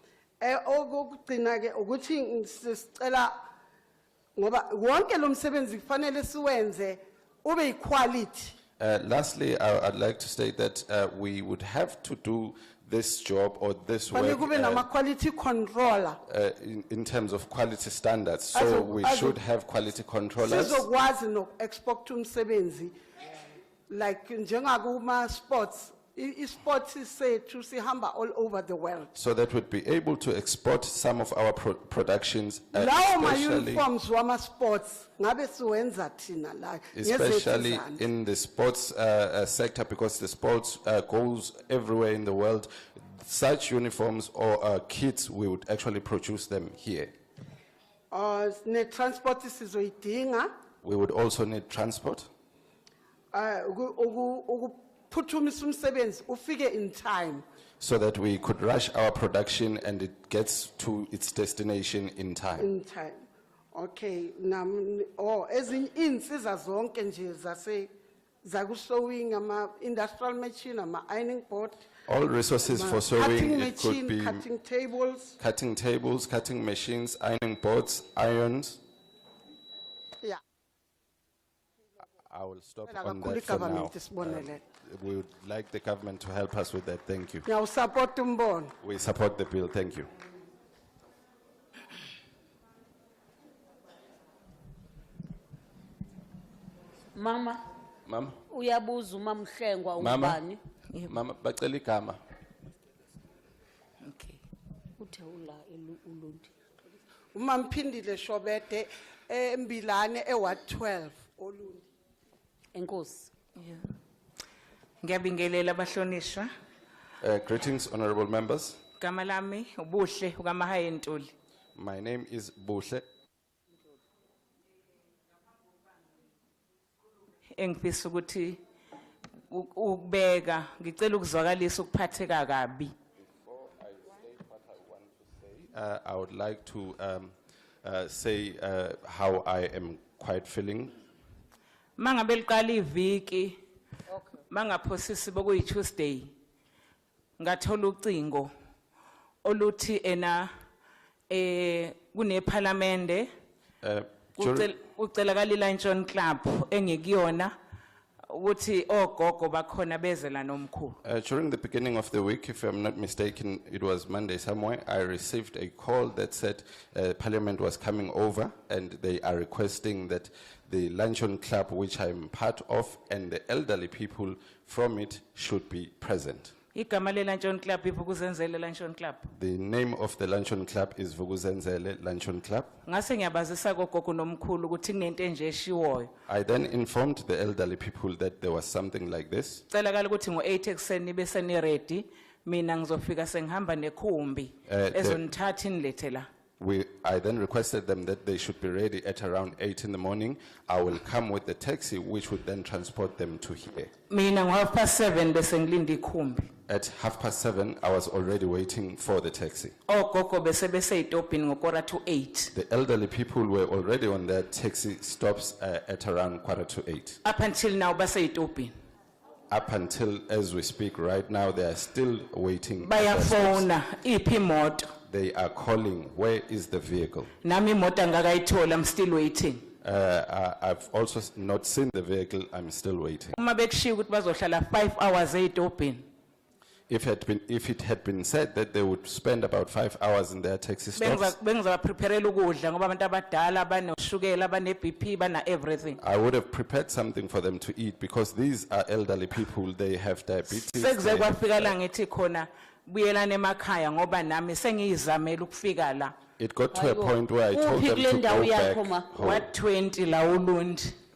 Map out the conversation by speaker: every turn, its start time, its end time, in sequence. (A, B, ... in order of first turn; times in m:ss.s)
0:00.4-0:03.4 A
0:04.4-0:08.5 A
0:08.8-0:14.9 B
0:14.1-0:16.2 A
0:16.2-0:20.8 B
0:18.5-0:19.4 A
0:20.4-0:22.9 A
0:23.9-0:29.1 A
0:29.1-0:33.9 B
0:32.7-0:38.0 A
0:36.9-0:47.1 B
0:48.1-0:50.5 A
0:50.8-0:52.3 B
0:53.3-0:57.4 A
0:57.8-1:02.7 B
1:02.6-1:07.9 A
1:08.4-1:11.9 A
1:12.1-1:14.4 B
1:12.7-1:15.4 A
1:15.4-1:18.8 B
1:22.3-1:27.5 B
1:22.9-1:24.6 A
1:27.4-1:28.7 A
1:28.8-1:30.1 B
1:37.1-1:37.6 C
1:38.0-1:38.4 B
1:38.5-1:40.6 C
1:40.0-1:40.4 B
1:41.0-1:42.2 B
1:44.0-1:44.4 D
1:45.0-1:46.5 C
1:47.3-1:51.9 A
1:52.7-1:53.3 C
1:53.6-1:53.9 D
1:55.0-1:56.5 D
1:57.2-1:58.8 B
1:59.0-2:01.3 D
2:01.8-2:03.0 B
2:07.5-2:08.6 D
2:09.5-2:12.9 D
2:13.4-2:20.9 B
2:22.0-2:23.6 D
2:24.5-2:26.3 D
2:27.4-2:28.5 D
2:29.4-2:30.5 D
2:31.3-2:33.3 D
2:33.8-2:34.7 B
2:34.4-2:37.5 D
2:38.3-2:41.0 D
2:41.0-2:56.5 B
2:56.7-2:59.3 D
2:59.3-3:02.7 B
3:02.8-3:06.1 D
3:06.3-3:09.6 B
3:09.7-3:16.3 D
3:14.7-3:15.2 B
3:16.6-3:23.9 B
3:24.1-3:26.5 D
3:26.7-3:29.7 B
3:29.9-3:32.5 D
3:32.5-3:37.2 B
3:37.2-3:38.7 D
3:39.5-3:43.7 B
3:42.8-3:44.9 D
3:45.0-3:47.3 B
3:47.4-3:49.7 D
3:49.8-3:53.4 B
3:53.3-3:56.0 D
3:56.9-4:01.3 B
4:00.9-4:06.0 D
4:06.0-4:11.7 B
4:10.5-4:16.1 D
4:16.4-4:19.5 B
4:16.7-4:19.2 C
4:19.2-4:20.9 D